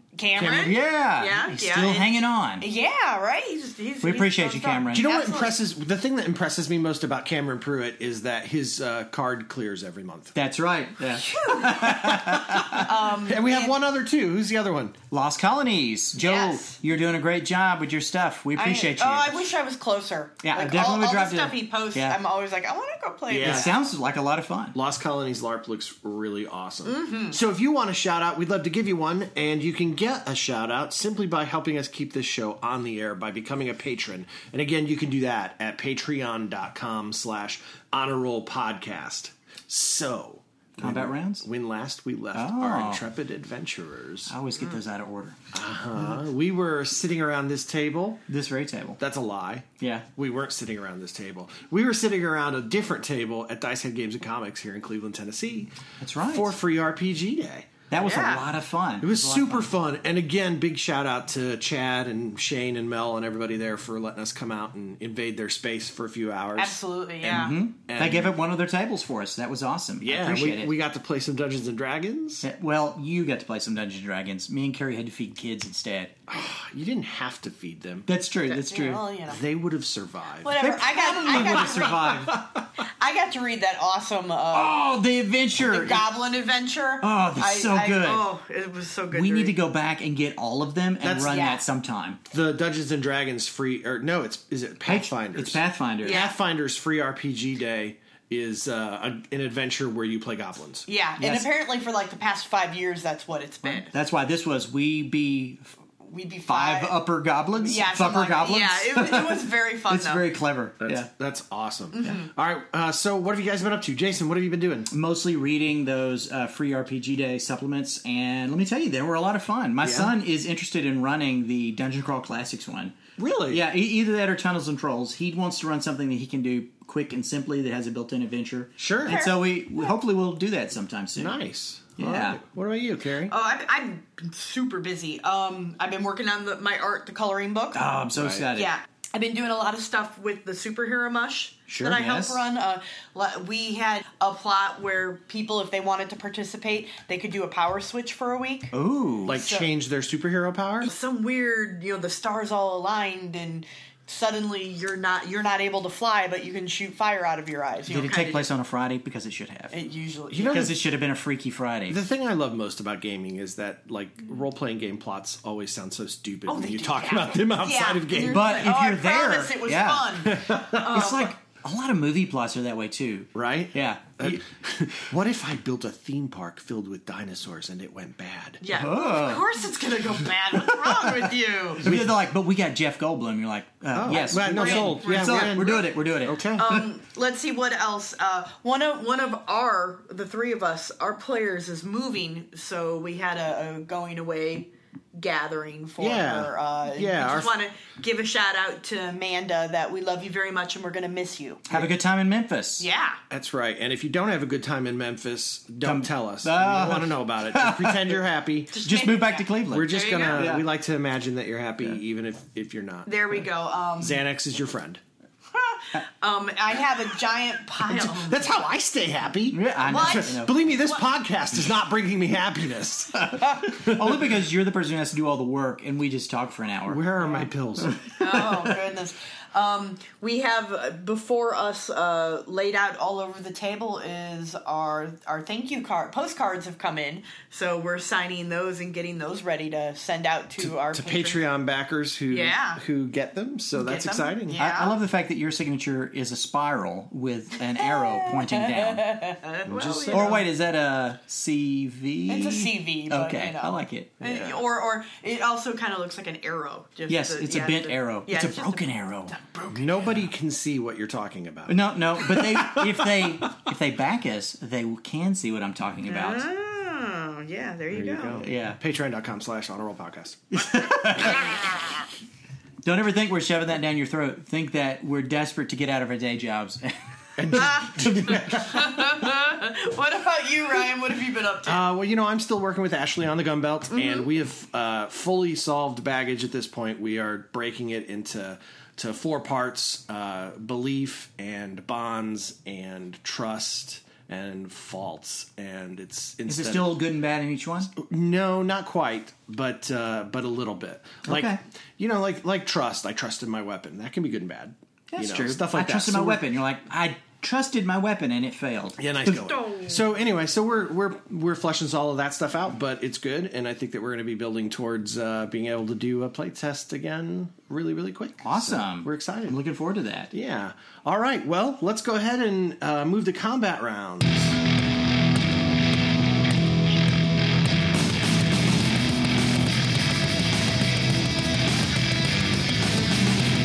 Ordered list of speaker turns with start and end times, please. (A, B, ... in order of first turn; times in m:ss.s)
0:00.2-0:05.6 A
0:00.4-0:00.7 B
0:00.5-0:02.6 C
0:04.0-0:05.1 C
0:04.9-0:10.4 B
0:10.4-0:12.9 C
0:11.1-0:13.8 A
0:11.9-0:15.0 B
0:15.1-0:19.5 C
0:16.2-0:16.8 A
0:18.6-0:23.8 A
0:20.4-0:22.2 C
0:23.3-0:23.7 B
0:23.4-0:24.8 C
0:24.7-0:44.4 B
0:26.8-0:27.4 A
0:40.8-0:41.5 C
0:42.3-0:43.0 C
0:44.3-0:45.4 C
0:45.5-0:48.3 B
0:48.3-0:49.0 C
0:49.0-0:57.9 B
0:49.8-0:50.1 C
0:56.0-0:56.5 C
0:57.9-0:59.7 C
0:58.0-0:58.5 A
0:59.0-1:06.8 B
1:06.6-1:07.6 A
1:07.2-1:10.7 C
1:07.9-1:08.3 B
1:10.0-1:12.5 B
1:12.4-1:16.2 C
1:16.3-1:18.1 B
1:18.1-1:19.0 C
1:18.5-1:19.4 A
1:19.3-1:20.5 B
1:20.4-1:22.2 A
1:20.6-1:22.6 C
1:21.1-1:22.4 B
1:23.0-1:24.8 A
1:24.5-1:26.0 C
1:25.6-1:29.6 A
1:27.0-1:28.3 C
1:29.1-1:32.2 C
1:31.0-1:31.4 B
1:31.2-1:31.6 A
1:32.3-1:40.9 B
1:34.8-1:36.2 C
1:36.0-1:36.4 A
1:40.9-1:43.9 A
1:41.2-1:41.5 C
1:43.6-1:45.7 C
1:46.0-1:47.0 A
1:46.5-1:51.1 C
1:47.6-1:50.2 A
1:50.8-1:54.9 B
1:51.9-1:52.3 A
1:54.9-2:03.0 C
1:59.8-2:00.1 B
2:03.2-2:03.6 B
2:03.5-2:11.4 C
2:08.8-2:09.2 B
2:09.0-2:09.4 A
2:11.2-2:13.3 B
2:12.0-2:12.4 C
2:13.3-2:17.8 A
2:17.7-2:18.7 C
2:18.1-2:18.5 B
2:18.5-2:28.7 A
2:21.7-2:22.0 B
2:21.8-2:22.4 C
2:28.7-2:29.4 C
2:29.3-2:30.9 B
2:29.3-2:29.7 A
2:30.8-2:38.5 A
2:37.9-2:39.8 C
2:39.7-2:40.6 A
2:40.3-2:40.8 B
2:40.4-2:42.0 C
2:41.9-2:48.5 B
2:46.5-2:51.4 A
2:48.3-2:50.3 C
2:50.2-2:51.1 B
2:50.8-2:54.4 C
2:53.4-2:58.6 B
2:58.6-3:01.9 A
2:58.7-2:59.4 C
3:01.8-3:06.4 C
3:01.8-3:02.1 B
3:03.9-3:06.8 B
3:04.1-3:05.8 A
3:06.6-3:21.8 A
3:16.0-3:17.6 B
3:21.7-3:22.9 C
3:22.8-3:23.2 A
3:23.3-3:28.7 B
3:25.8-3:28.2 C
3:28.7-3:30.5 A
3:28.8-3:30.6 C
3:29.7-3:33.1 B
3:33.1-3:34.2 A
3:34.0-3:35.0 B
3:35.5-3:38.7 A
3:37.8-3:44.2 B
3:39.5-3:40.5 C
3:39.8-3:41.0 A
3:43.3-3:47.0 C
3:46.9-3:48.0 B
3:48.2-4:01.4 A
4:00.6-4:04.6 B
4:02.3-4:02.8 A
4:03.8-4:05.0 A
4:04.6-4:09.1 C
4:07.8-4:10.5 A
4:09.7-4:10.4 B
4:10.1-4:14.2 C
4:12.3-4:20.0 A
4:14.2-4:14.6 B
4:17.1-4:19.3 C
4:19.7-4:23.3 B
4:21.7-4:26.5 C
4:26.1-4:28.4 A
4:27.9-4:30.6 B
4:28.4-4:28.8 C
4:30.5-4:31.5 C
4:32.8-4:39.0 C
4:37.4-4:38.6 B
4:37.5-4:41.8 A
4:41.7-4:57.0 B
4:43.9-4:44.2 A
4:56.5-4:57.9 C
4:58.0-5:06.4 B
5:01.2-5:01.6 C
5:05.1-5:09.4 C
5:09.0-5:19.6 B
5:09.3-5:10.1 A
5:18.4-5:20.3 C
5:20.3-5:24.6 B